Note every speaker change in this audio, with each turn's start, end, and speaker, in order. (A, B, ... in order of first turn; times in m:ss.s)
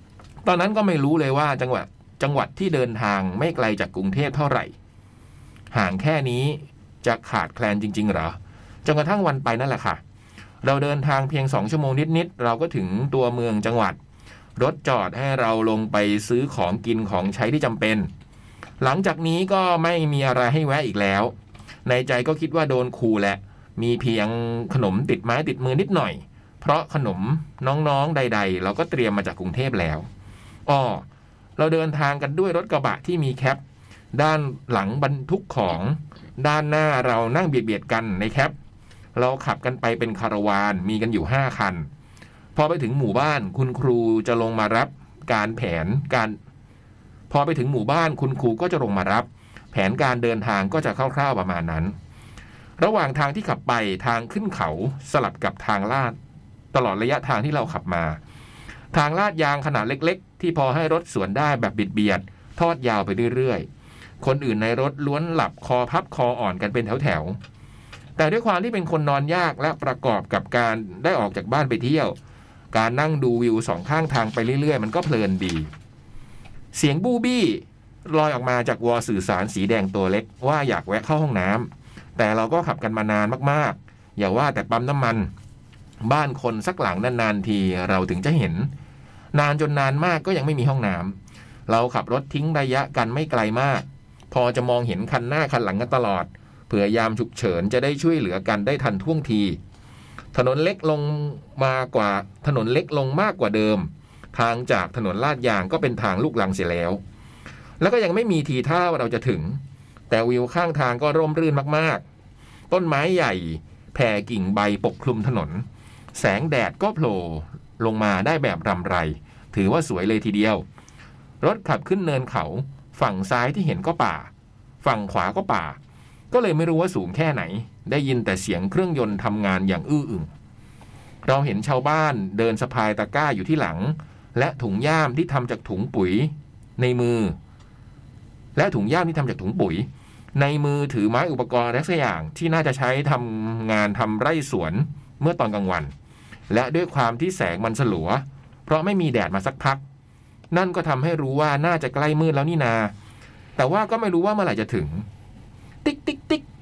0:00.4-0:04.7 A
0:05.7-0:10.0 A
0:10.6-0:14.0 A
0:14.6-0:18.1 A
0:18.8-0:21.3 A
0:21.8-0:30.1 A
0:30.7-0:31.0 A
0:31.6-0:33.6 A
0:34.1-0:38.5 A
0:39.1-0:41.9 A
0:42.5-0:46.4 A
0:47.3-0:51.9 A
0:52.8-0:56.2 A
0:56.7-0:58.2 A
0:58.9-1:03.7 A
1:04.2-1:07.4 A
1:08.2-1:12.1 A
1:12.7-1:15.7 A
1:16.7-1:25.3 A
1:26.0-1:28.7 A
1:29.3-1:31.2 A
1:31.7-1:39.6 A
1:40.3-1:47.0 A
1:47.8-1:52.0 A
1:52.7-2:00.6 A
2:01.4-2:04.3 A
2:04.8-2:05.8 A
2:06.3-2:10.3 A
2:11.2-2:17.4 A
2:18.6-2:25.9 A
2:26.5-2:29.8 A
2:30.5-2:32.9 A
2:33.6-2:35.0 A
2:35.8-2:36.4 A